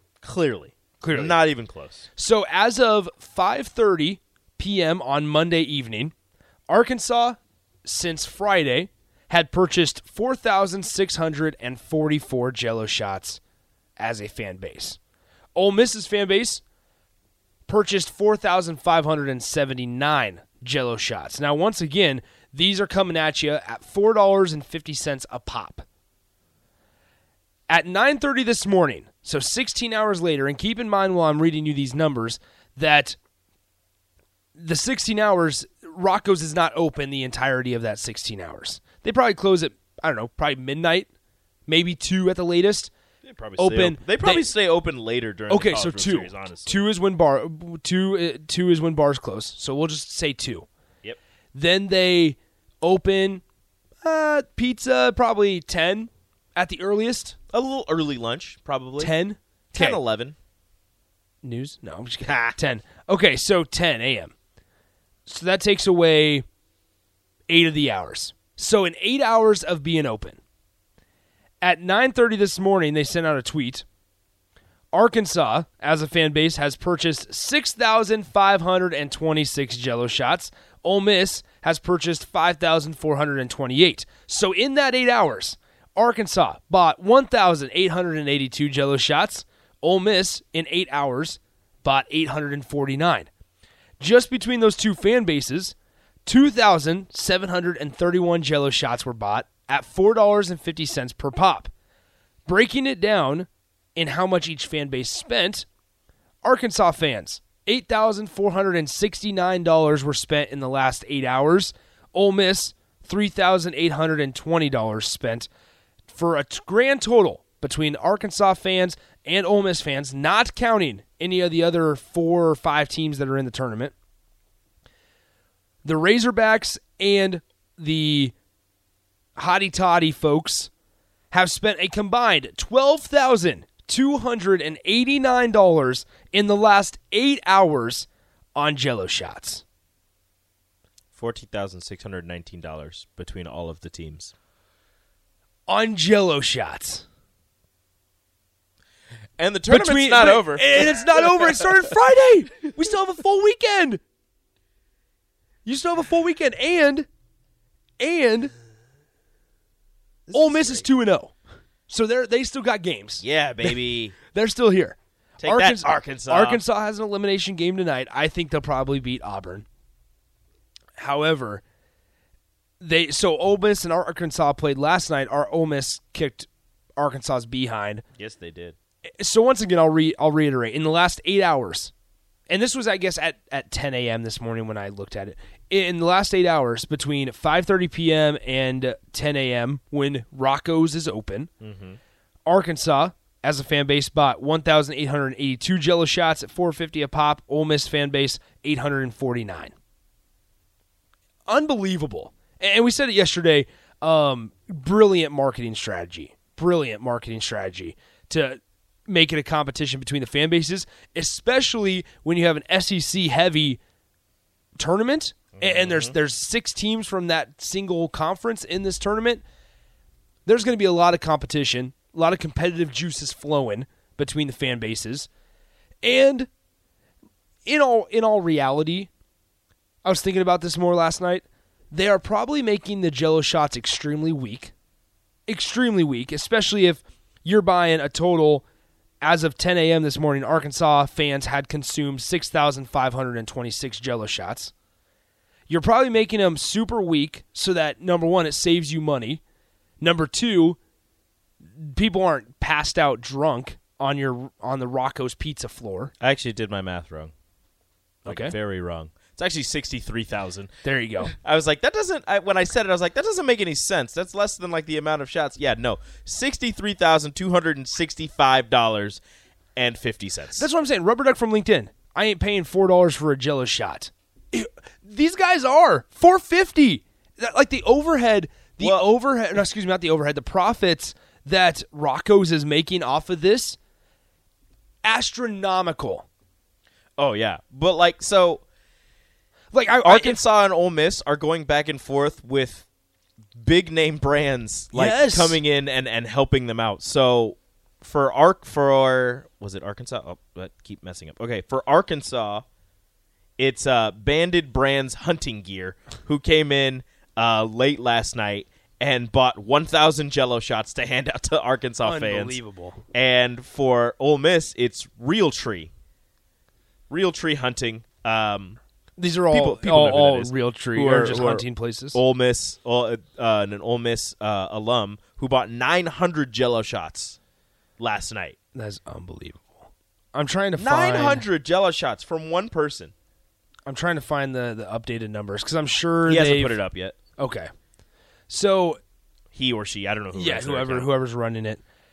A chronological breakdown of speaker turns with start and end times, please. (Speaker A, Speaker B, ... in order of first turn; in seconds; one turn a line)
Speaker A: 0.2-2.1
Speaker B: 1.0-1.4
Speaker B: 2.2-6.1
Speaker B: 6.7-13.4
Speaker B: 14.0-15.0
Speaker B: 15.6-16.6
Speaker B: 17.7-25.9
Speaker B: 27.7-33.2
Speaker B: 34.6-41.1
Speaker B: 41.7-42.9
Speaker A: 43.2-46.8
Speaker B: 43.6-44.5
Speaker B: 45.5-50.7
Speaker B: 51.5-53.4
Speaker B: 54.0-57.4
Speaker A: 57.5-59.1
Speaker B: 59.0-60.0
Speaker A: 59.8-60.4
Speaker B: 61.4-64.3
Speaker B: 65.3-66.5
Speaker B: 67.5-70.4
Speaker B: 71.6-73.8
Speaker B: 74.9-93.3
Speaker B: 94.0-101.7
Speaker B: 102.5-105.7
Speaker B: 106.4-115.5
Speaker B: 116.1-123.9
Speaker B: 125.8-128.3
Speaker B: 129.4-130.7
Speaker B: 131.3-139.6
Speaker A: 141.2-144.3
Speaker B: 145.7-147.1
Speaker A: 149.4-151.8
Speaker B: 149.7-154.0
Speaker B: 155.7-157.1
Speaker B: 158.0-158.5
Speaker A: 160.3-160.9
Speaker B: 160.3-161.3
Speaker B: 161.9-169.7
Speaker A: 163.2-164.2
Speaker A: 165.4-166.6
Speaker B: 171.0-171.6
Speaker B: 172.8-178.1
Speaker A: 178.2-178.8
Speaker B: 179.2-181.9
Speaker B: 182.5-191.5
Speaker A: 191.6-192.0
Speaker B: 192.5-199.7
Speaker B: 201.5-213.8
Speaker B: 214.8-219.4
Speaker A: 215.6-216.2
Speaker B: 220.5-225.3
Speaker B: 226.0-226.5
Speaker B: 227.7-229.1
Speaker B: 230.1-234.7
Speaker B: 235.5-238.6
Speaker B: 239.2-244.7
Speaker B: 245.7-249.4
Speaker B: 250.0-250.8
Speaker B: 251.8-256.1
Speaker A: 256.2-257.3
Speaker A: 258.2-269.2
Speaker B: 258.3-258.6
Speaker B: 260.8-261.3
Speaker A: 269.8-270.7
Speaker B: 270.6-283.8
Speaker A: 278.8-279.1
Speaker B: 285.0-286.3
Speaker A: 287.2-288.6
Speaker B: 289.7-290.4
Speaker A: 290.0-292.9
Speaker A: 293.6-302.6
Speaker B: 294.9-295.6
Speaker A: 303.6-312.6
Speaker B: 312.0-313.0
Speaker A: 313.1-315.9
Speaker A: 317.1-318.8
Speaker B: 319.2-322.2
Speaker A: 319.5-327.4
Speaker A: 328.0-328.6
Speaker B: 328.8-331.5
Speaker A: 330.8-333.1
Speaker B: 333.9-336.8
Speaker A: 336.2-337.2
Speaker B: 337.4-337.7
Speaker B: 338.5-339.0
Speaker A: 339.5-341.1
Speaker B: 340.3-341.8